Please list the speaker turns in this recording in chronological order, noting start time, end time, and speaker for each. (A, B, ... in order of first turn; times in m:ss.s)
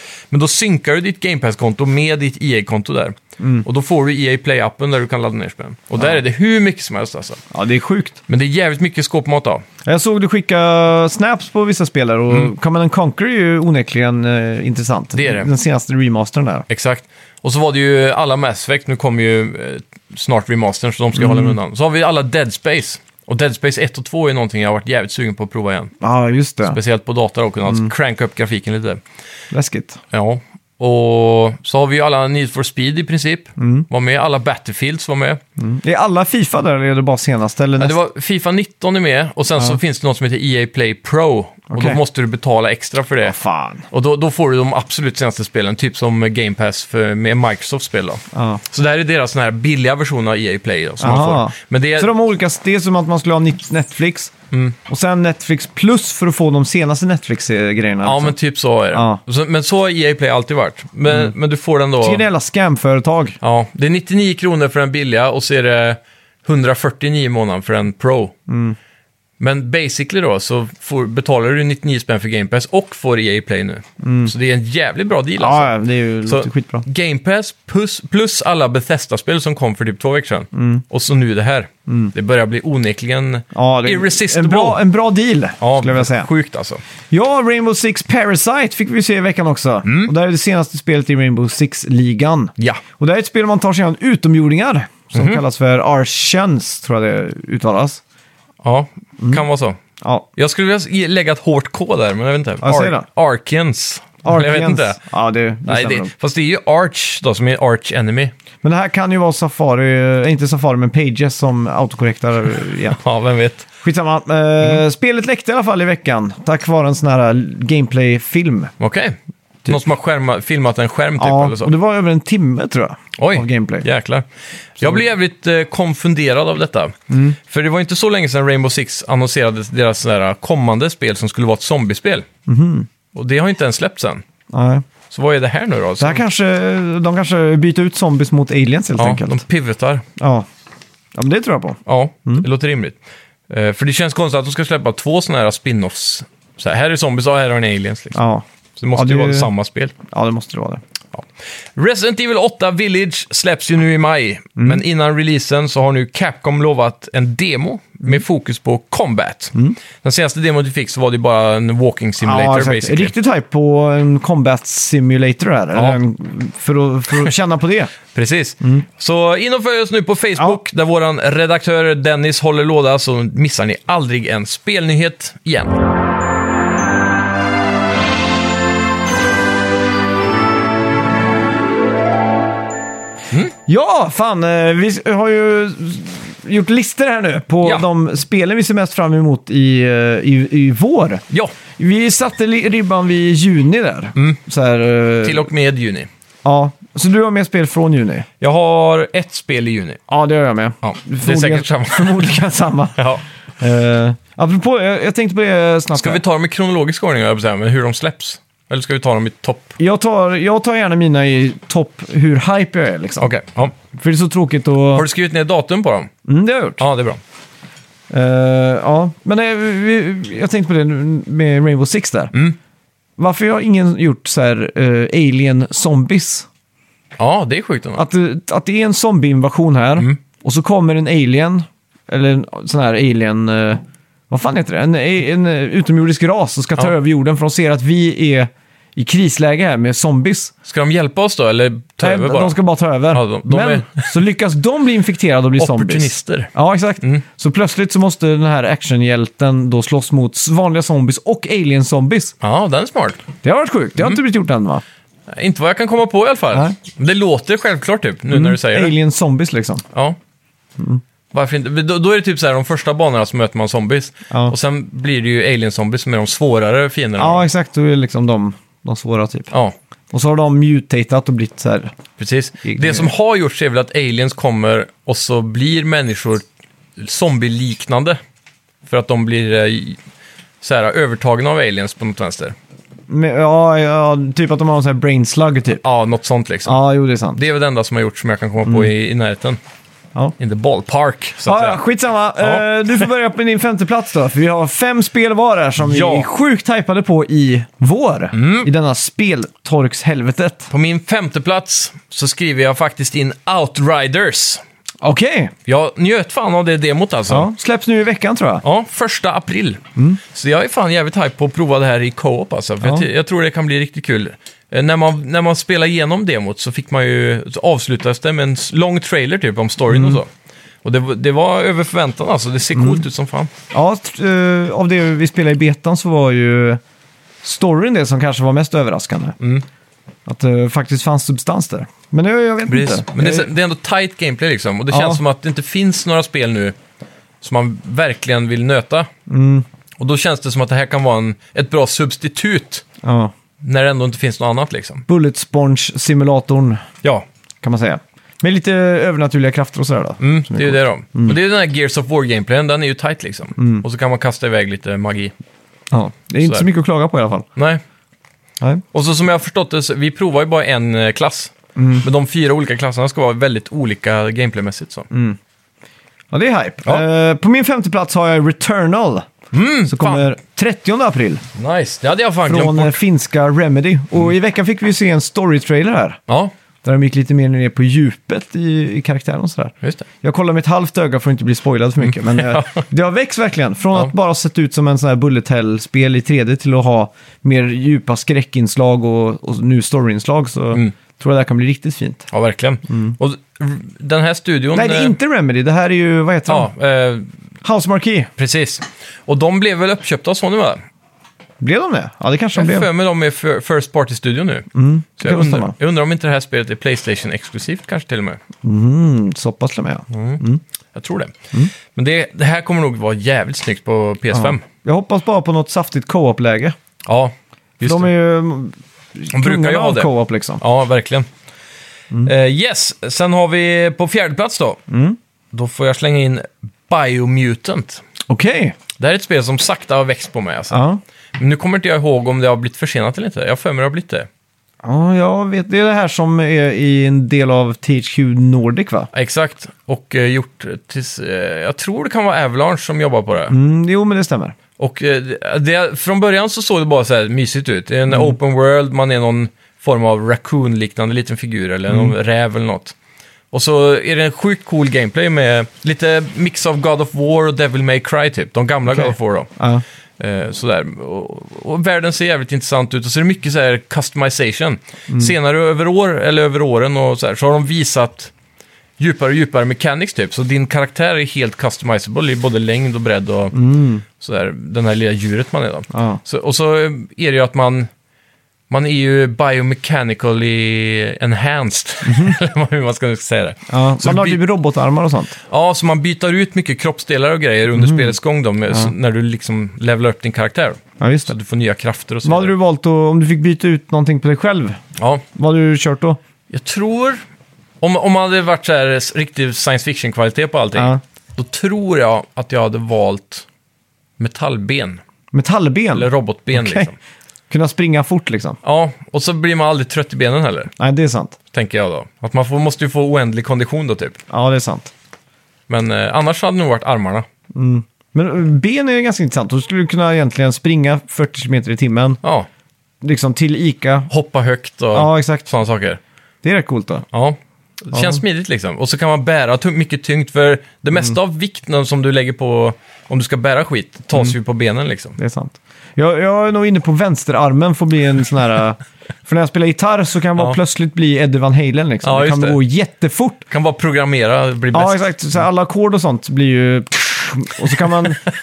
0:00.3-0:07.4 A
0:03.4-0:03.6 B
0:07.5-0:08.2 B
0:08.3-0:09.6 A
0:09.8-0:16.6 B
0:15.1-0:15.5 A
0:16.7-0:25.9 A
0:21.1-0:21.6 B
0:26.0-0:26.8 B
0:26.6-0:29.0 A
0:29.5-0:30.0 B
0:30.1-0:35.4 A
0:33.6-0:33.9 B
0:35.6-0:38.0 B
0:37.8-0:43.4 A
0:41.7-0:42.0 B
0:43.2-0:43.8 B
0:43.9-0:52.1 A
0:48.3-0:48.6 B
0:51.0-0:54.3 B
0:54.8-0:58.4 B
0:58.0-1:02.2 A
0:58.9-0:59.2 B
1:02.0-1:03.4 B
1:03.4-1:08.3 A
1:08.5-1:08.8 B
1:09.4-1:15.7 A
1:14.0-1:14.3 B
1:15.4-1:16.8 B
1:16.2-1:24.8 A
1:20.5-1:20.8 B
1:23.5-1:26.3 B
1:25.6-1:26.8 A
1:27.1-1:38.0 B
1:29.8-1:30.1 A
1:35.1-1:35.4 A
1:38.6-1:39.8 A
1:40.0-1:40.2 B
1:40.4-1:45.0 A
1:42.6-1:43.0 B
1:44.2-1:46.1 B
1:45.7-1:48.3 A
1:48.6-1:53.0 B
1:52.9-1:53.7 A
1:53.8-1:58.7 B
1:58.8-2:01.7 A
2:01.2-2:03.8 B
2:03.2-2:04.2 A
2:04.8-2:12.3 A
2:07.1-2:07.4 B
2:12.5-2:12.9 B
2:13.1-2:14.2 A
2:14.5-2:14.8 B
2:15.1-2:16.2 A
2:16.0-2:19.4 B
2:19.0-2:20.0 A
2:20.2-2:20.5 B
2:21.1-2:22.4 B
2:21.8-2:28.2 A
2:28.1-2:29.5 B
2:28.8-2:29.9 A
2:30.0-2:30.8 B
2:31.1-2:43.1 A
2:42.2-2:47.9 B
2:48.1-2:55.8 A
3:03.7-3:11.2 B
3:11.8-3:15.5 B
3:15.2-3:16.1 A
3:16.4-3:18.3 B
3:18.4-3:20.0 A
3:20.1-3:23.0 B
3:20.8-3:22.3 A
3:23.0-3:23.2 A
3:23.6-3:26.2 B
3:25.9-3:29.8 A
3:29.8-3:35.0 B
3:33.2-3:33.7 A
3:34.9-3:36.1 A
3:36.2-3:36.8 B
3:36.8-3:37.2 A
3:38.1-3:42.3 B
3:43.2-3:46.5 B
3:47.2-3:48.0 A
3:48.0-4:00.5 B
4:00.6-4:02.6 A
4:02.0-4:12.3 B
4:03.1-4:04.1 A
4:05.6-4:07.2 A
4:12.4-4:13.2 A
4:13.4-4:14.8 B
4:15.3-4:18.9 A
4:18.3-4:19.8 B
4:21.3-4:27.4 A
4:27.2-4:29.5 B
4:30.1-4:31.9 B
4:32.2-4:36.4 A
4:32.6-4:33.1 B
4:37.0-4:38.2 A
4:38.8-4:40.0 A
4:40.6-4:42.6 A
4:43.1-4:45.8 B
4:45.8-4:46.8 A
4:46.6-4:47.4 B
4:47.3-4:49.6 A
4:48.6-4:48.9 B
4:50.4-4:51.8 A
4:51.4-5:00.7 B
4:52.4-4:53.0 A
4:55.8-4:56.3 A
4:58.3-4:58.7 A
5:00.7-5:04.6 A
5:05.0-5:05.5 B
5:05.7-5:07.5 A
5:07.3-5:08.6 B
5:08.6-5:20.3 A
5:12.8-5:13.1 B
5:19.9-5:20.2 B
5:20.8-5:23.5 A
5:22.7-5:23.0 B
5:23.7-5:26.8 B
5:27.4-5:29.4 B
5:29.4-5:29.6 A
5:30.2-5:33.5 B
5:32.7-5:36.8 A
5:34.9-5:35.2 B
5:37.4-5:39.1 A
5:39.3-5:39.6 B
5:40.0-5:42.8 A
5:43.0-5:43.3 B
5:43.6-5:45.0 A
5:45.1-5:46.8 B
5:47.6-5:51.4 B
5:50.2-5:55.3 A
5:53.6-5:53.8 B
5:55.9-5:57.5 B
5:57.6-5:57.8 A
5:58.9-6:05.1 A
6:01.8-6:02.0 B
6:05.1-6:05.4 B
6:06.3-6:09.3 B
6:09.5-6:10.3 A
6:09.9-6:11.4 B
6:11.6-6:13.0 A
6:12.4-6:16.2 B
6:16.3-6:16.5 A
6:16.8-6:32.3 B
6:22.0-6:22.8 A
6:32.3-6:35.1 A
6:32.9-6:33.1 B
6:34.7-6:36.7 B
6:36.5-6:37.3 A
6:37.6-6:38.3 B
6:38.4-6:40.8 A
6:41.6-6:42.9 B
6:42.5-6:48.4 A
6:44.7-6:45.7 B
6:48.6-6:50.6 B
6:50.1-6:50.4 A
6:50.9-6:51.4 A
6:51.9-6:54.6 A
6:54.3-6:56.8 B
6:57.0-6:58.1 A
6:57.8-7:00.6 B
6:59.3-7:01.3 A
7:02.2-7:04.8 A
7:04.9-7:05.2 B
7:05.5-7:08.0 A
7:08.3-7:08.8 B
7:09.0-7:10.8 A
7:10.7-7:11.0 B
7:11.4-7:14.3 A
7:14.8-7:19.1 B
7:19.1-7:23.5 A
7:23.5-7:24.6 B
7:24.8-7:32.9 A
7:28.1-7:28.3 B
7:33.5-7:39.5 A
7:38.9-7:39.8 B
7:40.2-7:48.3 A
7:49.0-7:53.6 A
7:53.5-7:54.0 B
7:54.1-7:57.9 A
7:55.9-7:56.2 B
7:58.7-8:04.4 A
8:02.0-8:02.4 B
8:03.7-8:05.3 B
8:05.5-8:12.5 A
8:07.7-8:08.1 B
8:11.0-8:11.3 B
8:12.2-8:14.8 B
8:15.0-8:15.2 A
8:15.3-8:16.2 B
8:16.5-8:17.2 A
8:17.8-8:23.4 A
8:20.7-8:21.0 B
8:24.2-8:25.0 A
8:25.3-8:26.9 B
8:25.9-8:27.0 A
8:27.5-8:28.6 B
8:28.6-8:30.7 A
8:30.8-8:31.4 B
8:31.5-8:34.2 A
8:34.3-8:34.9 B
8:35.7-8:37.2 A
8:37.5-8:42.2 B
8:42.2-8:42.5 A
8:43.0-8:44.1 B
8:44.1-8:46.0 A
8:44.9-8:45.5 B
8:46.4-8:47.0 B
8:47.1-8:55.2 A
8:47.9-8:48.2 B
8:55.2-9:03.4 B
9:02.0-9:02.6 A
9:03.5-9:05.1 A
9:04.7-9:08.2 B